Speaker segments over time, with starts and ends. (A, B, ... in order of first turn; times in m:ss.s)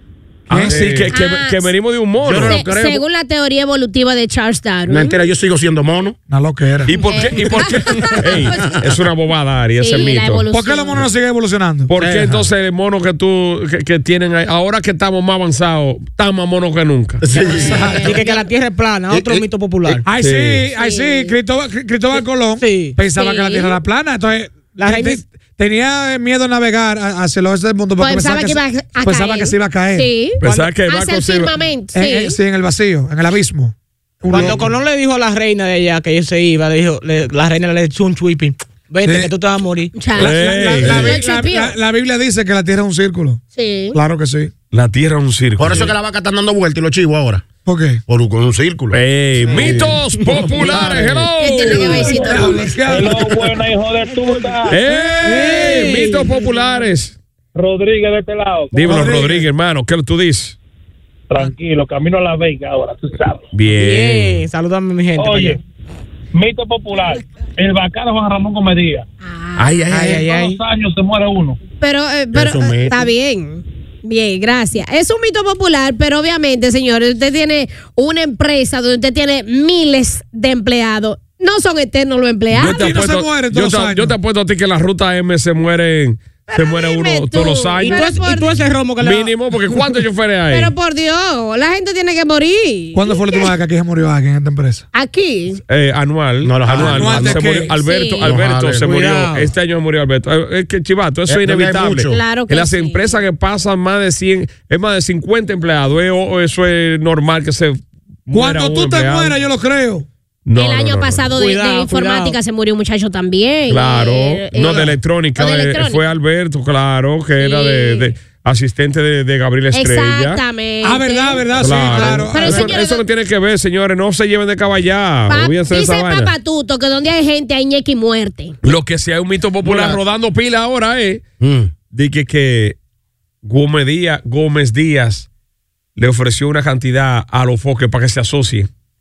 0:00.5-0:00.8 A
0:00.5-0:02.7 B
0:00.7-0:01.0 C
0:01.1-0:01.6 D
0:02.2-0:03.0 C
0:02.4-0:05.2 D
0:04.9-0:06.2 C
0:06.3-0:06.9 A
0:06.9-0:10.4 B
0:07.0-0:08.6 D
0:09.8-0:11.0 D
0:10.5-0:11.9 A
0:11.9-0:17.2 B
0:12.0-0:12.4 C
0:17.2-0:18.1 C
0:17.3-0:18.5 D
0:17.5-0:18.1 A
0:18.0-0:20.0 E
0:19.1-0:20.0 C
0:20.0-0:30.1 A
0:20.2-0:20.6 B
0:20.8-0:21.3 D
0:22.6-0:23.0 E
0:23.2-0:23.8 D
0:24.8-0:25.2 E
0:28.0-0:32.4 D
0:30.4-0:31.5 B
0:30.4-0:30.7 E
0:31.9-0:34.6 A
0:34.3-0:39.9 E
0:39.0-0:39.3 A
0:39.9-0:41.7 D
0:40.2-0:43.4 A
0:40.2-0:41.2 B
0:43.5-0:44.0 D
0:43.9-0:44.5 A
0:44.7-0:45.9 B
0:45.6-0:47.5 C
0:47.6-0:48.0 A
0:48.1-0:50.0 C
0:48.9-0:52.2 B
0:50.5-0:51.2 C
0:51.4-0:52.8 D
0:52.0-0:53.4 A
0:52.2-0:54.8 F
0:54.1-0:54.4 E
0:54.7-0:57.1 B
0:54.8-0:56.1 A
0:57.5-0:58.9 F
0:58.7-1:00.6 B
0:58.8-0:59.4 A
1:01.3-1:03.5 F
1:03.5-1:04.4 B
1:03.7-1:05.6 E
1:05.2-1:05.6 F
1:06.3-1:09.0 F
1:09.2-1:09.7 D
1:09.6-1:10.2 C
1:09.9-1:10.6 E
1:10.0-1:11.6 F
1:11.8-1:22.8 D
1:12.3-1:13.1 C
1:22.6-1:24.1 A
1:22.6-1:28.1 B
1:26.5-1:28.6 D
1:27.8-1:29.3 E
1:29.0-1:30.7 B
1:30.5-1:33.4 D
1:32.9-1:34.8 A
1:34.9-1:35.6 D
1:35.7-1:49.3 B
1:36.4-1:37.5 C
1:36.7-1:37.7 A
1:37.8-1:38.3 D
1:38.2-1:38.8 C
1:38.8-1:39.5 E
1:41.3-1:42.2 C
1:42.1-1:43.2 D
1:48.3-1:50.0 A
1:50.4-1:51.3 B
1:50.6-1:56.0 D
1:51.4-1:52.4 E
1:53.7-2:00.4 B
1:57.4-1:58.1 D
1:59.7-2:03.0 D
2:00.8-2:02.8 A
2:01.6-2:06.3 B
2:05.3-2:08.5 D
2:08.6-2:11.2 B
2:09.6-2:10.0 C
2:11.4-2:11.7 C
2:11.9-2:12.8 B
2:13.4-2:15.3 B
2:16.0-2:18.7 B